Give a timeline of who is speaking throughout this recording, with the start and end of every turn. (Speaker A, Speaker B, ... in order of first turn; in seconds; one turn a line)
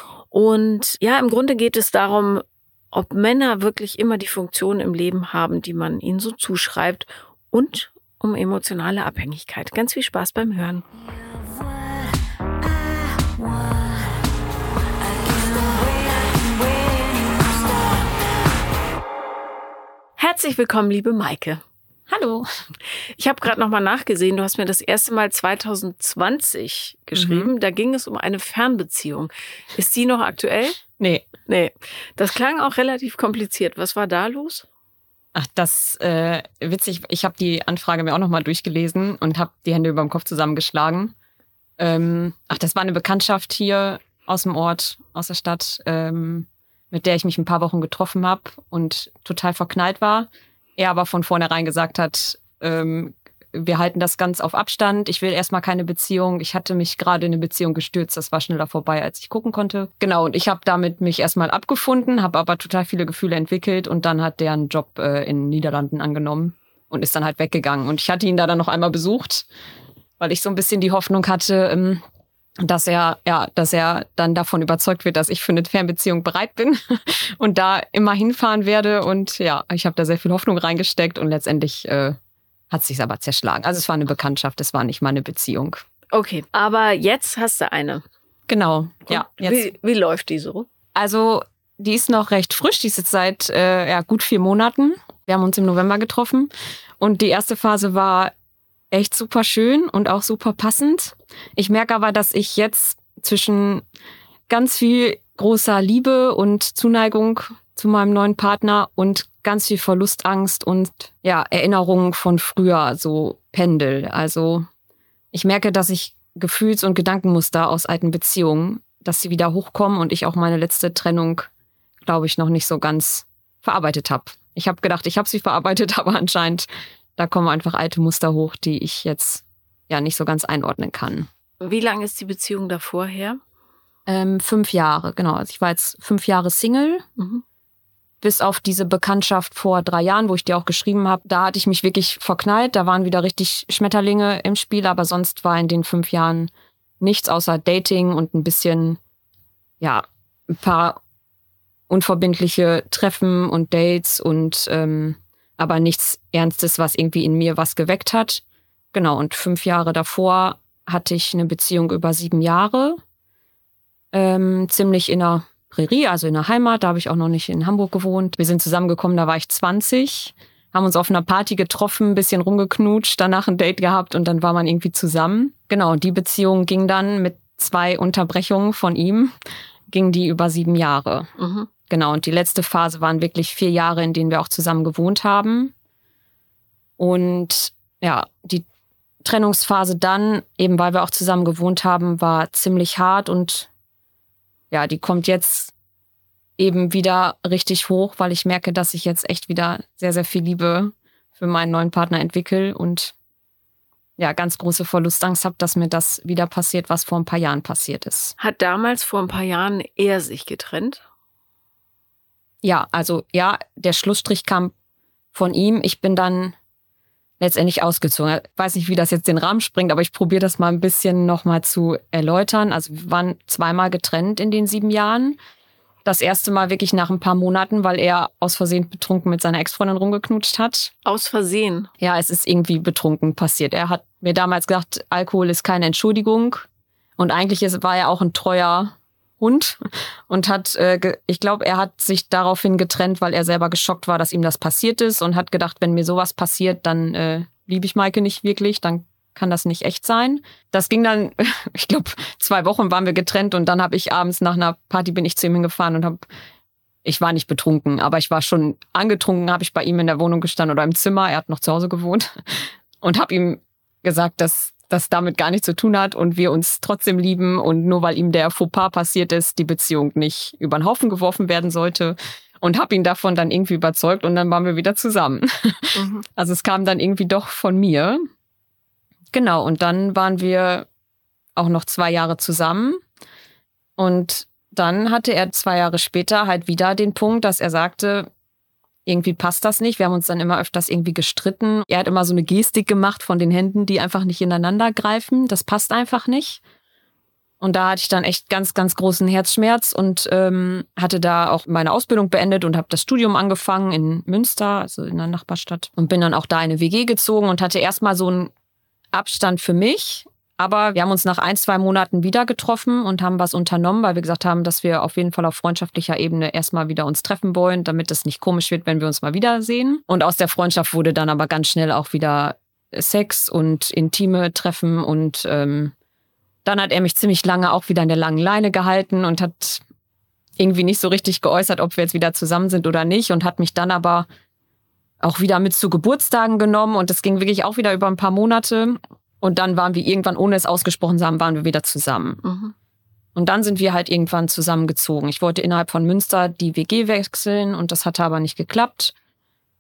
Speaker A: 0.3-10.9
Speaker A: 20.2-21.6
Speaker B: 22.1-22.4
Speaker A: 23.2-30.8
Speaker B: 27.1-27.5
Speaker B: 31.0-31.3
Speaker A: 31.5-34.7
Speaker B: 35.3-41.1
Speaker B: 41.8-69.5
Speaker B: 70.2-72.0
Speaker B: 72.6-82.2
Speaker B: 82.7-85.8
Speaker A: 86.1-88.0
Speaker B: 88.5-89.7
Speaker A: 89.1-90.7
Speaker B: 91.0-98.3
Speaker B: 98.9-103.8
Speaker B: 104.5-114.7
Speaker B: 115.3-121.5
Speaker B: 122.0-131.3
Speaker A: 131.6-133.4
Speaker B: 134.1-137.0
Speaker A: 137.2-137.4
Speaker B: 138.2-149.0
Speaker B: 149.8-151.0
Speaker B: 151.9-158.4
Speaker B: 158.9-163.0
Speaker B: 164.1-179.3
Speaker B: 179.9-181.3
Speaker A: 181.4-181.7
Speaker B: 181.9-185.7
Speaker B: 187.0-188.6
Speaker B: 189.2-193.7
Speaker B: 194.7-195.7
Speaker B: 196.6-203.1
Speaker B: 204.2-208.3
Speaker A: 208.4-211.0
Speaker B: 212.6-214.7
Speaker B: 215.3-216.5
Speaker B: 217.4-225.4
Speaker B: 226.0-230.9
Speaker A: 231.0-231.9
Speaker B: 232.0-236.7
Speaker B: 237.2-256.2
Speaker B: 257.1-278.2
Speaker A: 275.9-276.2
Speaker B: 279.3-280.9
Speaker B: 281.6-283.0
Speaker B: 284.0-288.3
Speaker B: 289.1-296.6
Speaker B: 297.6-308.5
Speaker B: 309.1-325.9
Speaker B: 326.6-329.8
Speaker B: 330.6-334.3
Speaker B: 335.2-342.4
Speaker A: 342.4-342.7
Speaker B: 343.3-349.1